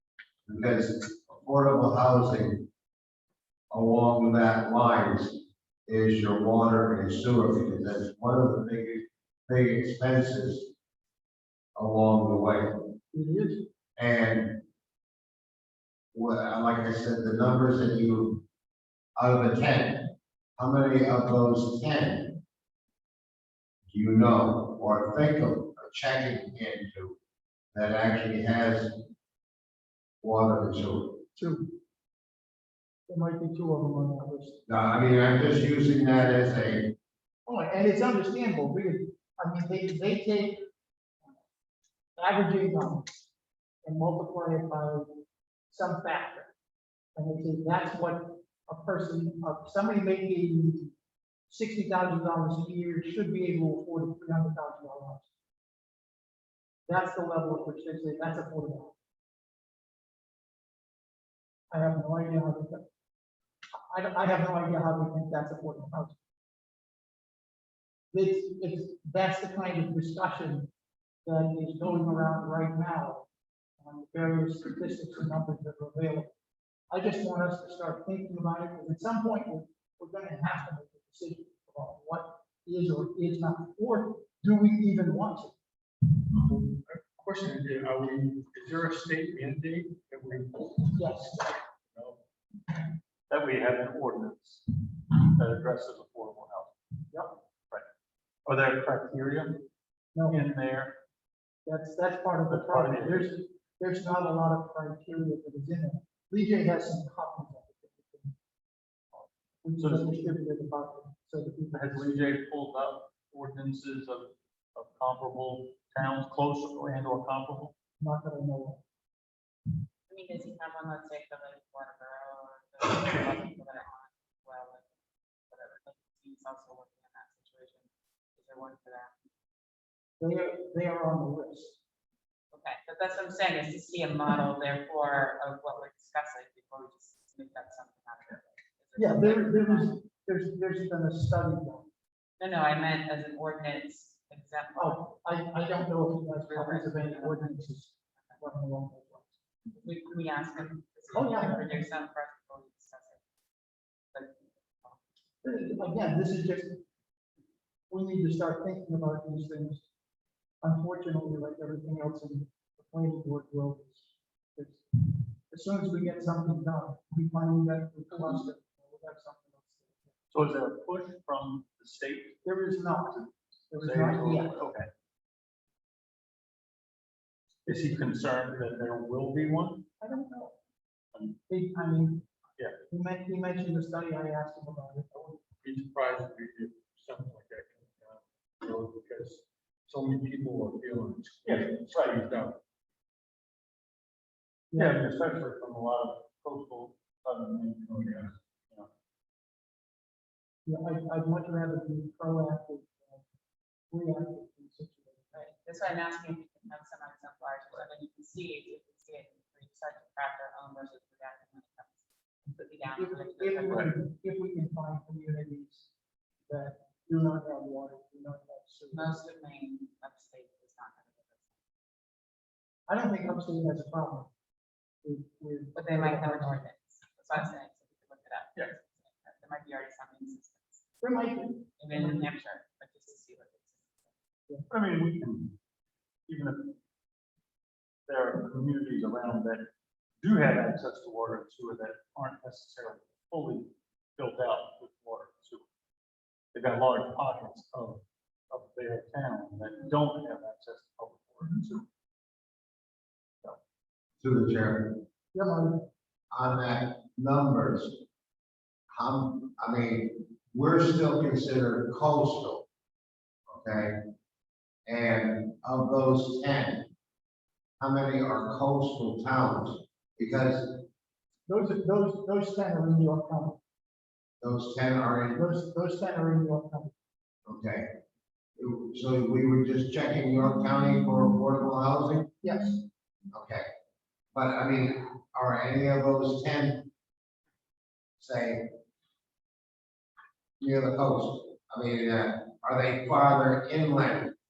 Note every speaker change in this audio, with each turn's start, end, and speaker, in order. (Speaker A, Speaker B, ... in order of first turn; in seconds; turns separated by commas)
Speaker A: 0.5-2.6, Speaker A: 3.7-10.7, Speaker A: 11.8-12.7, Speaker B: 13.1-13.6, Speaker A: 14.0-14.6, Speaker A: 16.1-18.4, Speaker A: 19.2-20.0, Speaker A: 20.6-22.3, Speaker A: 23.9-27.2, Speaker A: 27.7-28.9, Speaker A: 30.2-31.2, Speaker B: 31.4-31.7, Speaker B: 33.1-34.6, Speaker A: 34.7-36.9, Speaker B: 37.5-40.7, Speaker B: 42.2-43.1, Speaker B: 43.8-46.5, Speaker B: 47.1-50.9, Speaker B: 51.5-55.3, Speaker B: 56.9-59.0, Speaker B: 61.7-62.9, Speaker B: 63.7-66.1, Speaker B: 68.1-70.7, Speaker B: 71.2-73.3, Speaker B: 73.8-76.3, Speaker B: 76.9-85.5, Speaker C: 86.4-91.4, Speaker B: 90.9-91.5, Speaker C: 91.9-92.2, Speaker D: 93.3-96.7, Speaker D: 98.5-99.7, Speaker B: 100.1-100.4, Speaker D: 100.3-101.0, Speaker B: 101.7-108.3, Speaker D: 102.5-103.3, Speaker B: 109.6-112.1, Speaker D: 109.8-110.1, Speaker D: 111.7-117.7, Speaker B: 118.0-118.8, Speaker E: 120.1-124.8, Speaker E: 125.5-129.1, Speaker B: 130.2-131.8, Speaker E: 132.5-139.9, Speaker B: 139.0-141.9, Speaker E: 142.4-145.0, Speaker B: 144.8-149.3, Speaker E: 146.4-147.7, Speaker E: 149.7-153.2, Speaker B: 151.1-151.8, Speaker E: 154.1-155.0, Speaker B: 155.4-156.8, Speaker B: 157.9-159.8, Speaker B: 160.6-170.1, Speaker D: 170.3-172.4, Speaker B: 172.4-174.7, Speaker D: 173.7-174.9, Speaker D: 177.7-179.9, Speaker B: 180.0-180.6, Speaker D: 181.1-181.4, Speaker B: 181.5-182.2, Speaker B: 182.9-185.1, Speaker C: 185.1-192.6, Speaker D: 191.4-192.3, Speaker B: 194.7-195.0, Speaker D: 194.8-198.9, Speaker B: 200.7-203.2, Speaker B: 203.9-205.3, Speaker E: 205.3-213.9, Speaker B: 212.9-215.9, Speaker B: 216.5-219.2, Speaker E: 218.9-221.4, Speaker B: 222.9-224.3, Speaker B: 225.0-226.6, Speaker E: 225.8-231.0, Speaker B: 231.0-232.3, Speaker E: 231.8-234.1, Speaker D: 234.7-235.6, Speaker D: 236.3-236.8, Speaker D: 238.1-239.7, Speaker D: 240.2-245.7, Speaker D: 246.5-251.9, Speaker A: 254.2-254.9, Speaker B: 255.3-255.8, Speaker A: 256.3-258.0, Speaker A: 258.9-262.6, Speaker A: 263.5-263.9, Speaker A: 264.9-266.9, Speaker A: 267.8-270.7, Speaker B: 271.5-273.6, Speaker A: 274.4-275.4, Speaker B: 275.3-276.9, Speaker A: 277.4-277.9, Speaker A: 278.6-282.3, Speaker B: 282.4-282.8, Speaker A: 283.3-283.6, Speaker A: 284.3-286.9, Speaker A: 288.2-288.6, Speaker A: 290.6-294.3